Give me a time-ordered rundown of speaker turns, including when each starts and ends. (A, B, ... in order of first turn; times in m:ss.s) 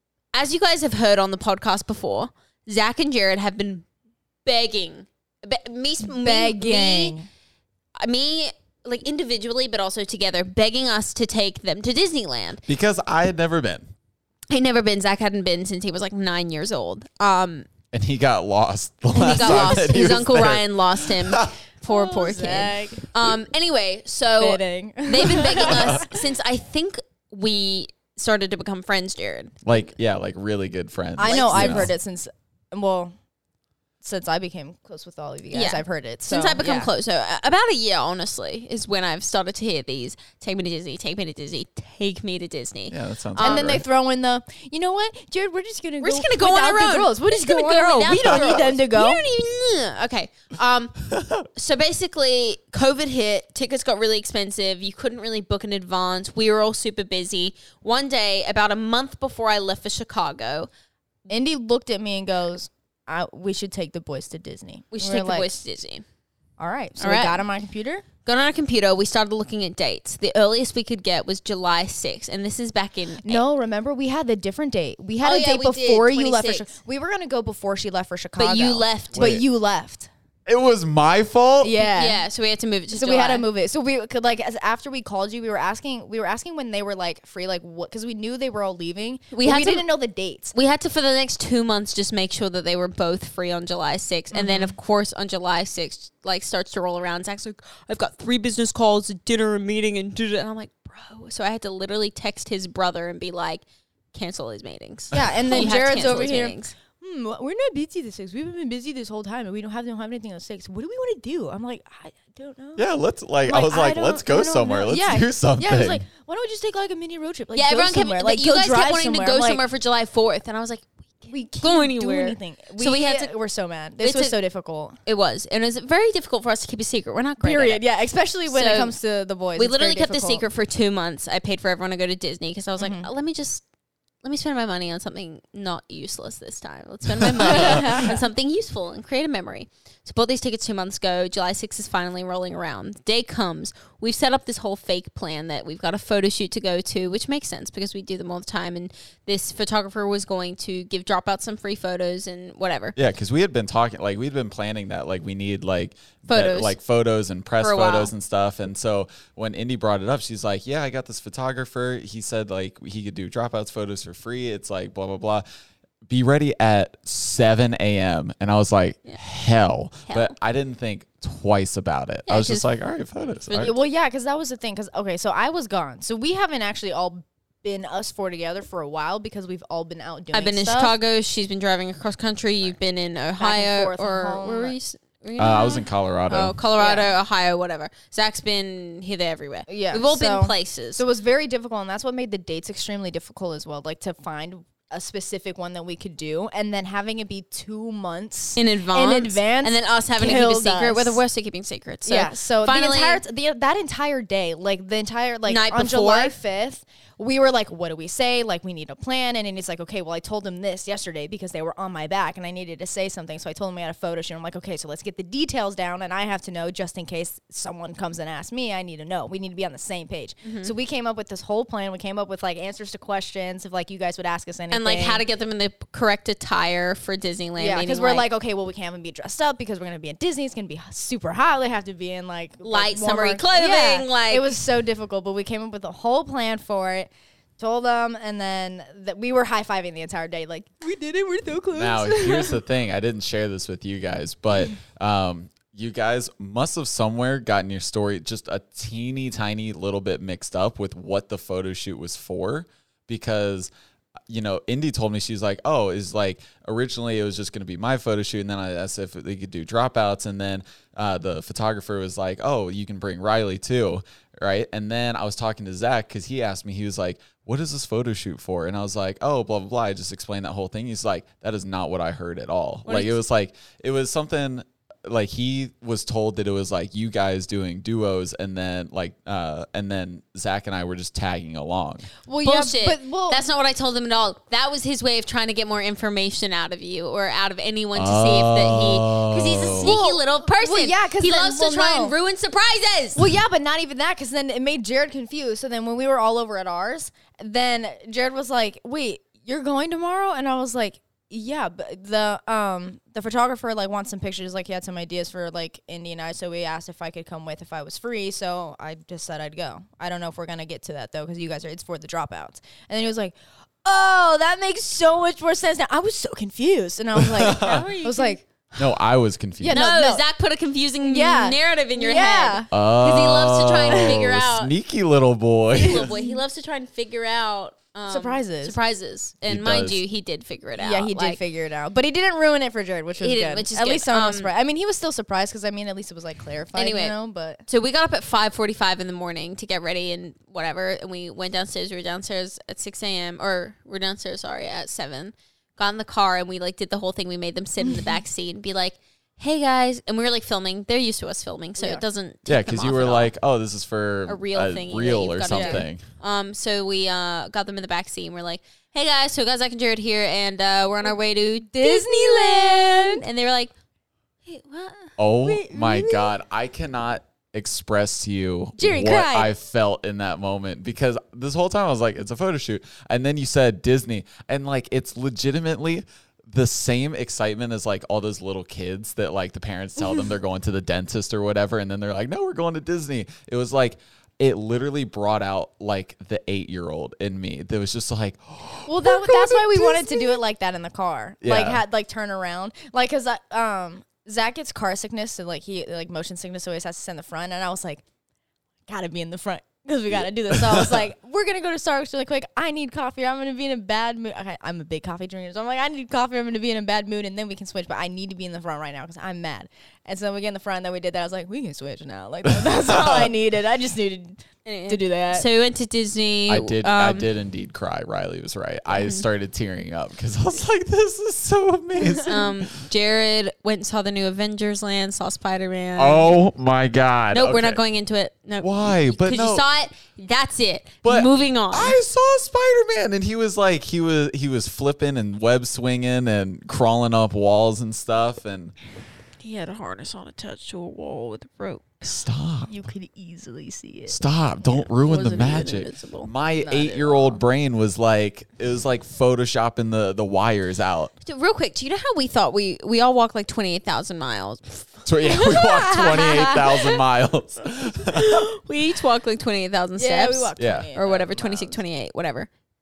0:00.3-0:03.8 A
0:04.4-0:07.2 A
0:06.0-0:07.3 B
0:08.0-0:12.6 A
0:12.7-0:13.9 C
0:14.5-0:17.7 A
0:17.9-0:21.5 C
0:19.1-0:29.6 A
0:19.4-0:19.9 B
0:21.9-0:23.0 B
0:24.4-0:26.2 B
0:25.6-0:26.0 C
0:29.6-0:31.9 C
0:31.2-0:33.1 B
0:31.2-0:31.9 A
0:34.0-0:36.9 B
0:35.5-0:43.8 A
0:42.9-0:43.8 C
0:43.4-0:49.2 B
0:46.0-1:00.7 A
0:51.1-0:51.4 C
1:01.3-1:05.6 B
1:04.9-1:06.0 A
1:06.6-1:08.0 B
1:07.0-1:07.4 A
1:08.2-1:13.4 A
1:13.2-1:20.1 B
1:15.2-1:16.7 A
1:18.4-1:19.3 A
1:19.1-1:19.4 C
1:20.5-1:21.7 C
1:21.6-1:22.2 B
1:21.8-1:23.5 A
1:22.9-1:30.5 B
1:29.3-1:29.9 A
1:30.5-1:46.7 A
1:34.3-1:34.7 B
1:45.1-1:52.8 B
1:52.8-1:56.0 C
1:53.4-1:59.6 B
1:57.5-2:03.3 A
2:01.3-2:05.0 B
2:04.0-2:04.4 A
2:05.0-2:07.8 A
2:07.4-2:10.4 B
2:08.5-2:08.9 A
2:09.6-2:13.6 A
2:12.8-2:13.1 B
2:14.2-2:32.9 A
2:17.4-2:17.8 C
2:17.4-2:18.2 B
2:32.9-2:45.4 C
2:36.3-2:36.7 A
2:37.6-2:38.1 A
2:46.1-2:53.8 C
2:50.1-2:50.3 A
2:52.3-2:52.7 A
2:53.5-2:53.7 A
2:53.6-3:01.0 B
3:00.3-3:11.0 A
3:03.4-3:04.8 B
3:05.4-3:06.6 C
3:06.8-3:07.1 B
3:09.7-3:21.2 B
3:18.6-3:23.2 A
3:22.0-3:45.2 B
3:25.4-3:26.3 A
3:40.4-3:40.7 A
3:44.7-3:48.2 A
3:47.6-4:02.6 B
3:52.6-3:54.6 A
4:01.7-4:13.7 C
4:14.3-4:42.1 C
4:32.8-4:33.2 A
4:42.2-4:43.4 B
4:42.4-4:53.2 A
4:47.9-4:49.9 C
4:49.7-4:52.1 B
4:53.2-5:18.8 B
5:17.1-5:17.8 C
5:17.4-5:18.4 A
5:18.8-5:19.8 C
5:19.6-5:20.2 B
5:19.7-5:24.7 A
5:21.0-5:22.7 B
5:22.7-5:26.1 C
5:23.9-5:24.2 B
5:25.8-5:26.4 B
5:25.8-5:31.4 A
5:28.1-5:28.8 B
5:29.5-5:30.0 C
5:30.8-5:37.6 B
5:33.2-5:34.5 A
5:36.7-5:37.1 A
5:37.7-5:53.3 A
5:47.8-5:48.2 B
5:51.8-5:52.0 B
5:52.5-5:56.0 C
5:54.3-6:03.7 A
5:55.5-5:55.8 B
6:01.7-6:03.2 B
6:04.4-6:05.2 A
6:05.2-6:30.0 C
6:05.4-6:06.3 B
6:08.8-6:09.5 B
6:28.9-6:38.0 B
6:31.4-6:31.8 C
6:38.9-6:55.4 B
6:40.5-6:41.0 C
6:52.5-6:53.3 C
6:54.6-6:57.3 A
6:56.5-7:02.7 C
6:58.9-6:59.2 A
7:02.2-7:06.4 A
7:06.0-7:07.8 C
7:07.3-7:12.0 A
7:08.6-7:09.6 C
7:11.0-7:18.7 C
7:19.4-7:22.2 A
7:22.0-7:22.7 C
7:22.7-7:24.2 B
7:24.1-7:31.1 C
7:24.6-7:27.4 A
7:31.2-7:36.8 A
7:35.0-7:38.5 C
7:35.3-7:36.7 B
7:38.1-7:42.5 A
7:40.0-7:41.8 B
7:40.6-7:40.9 C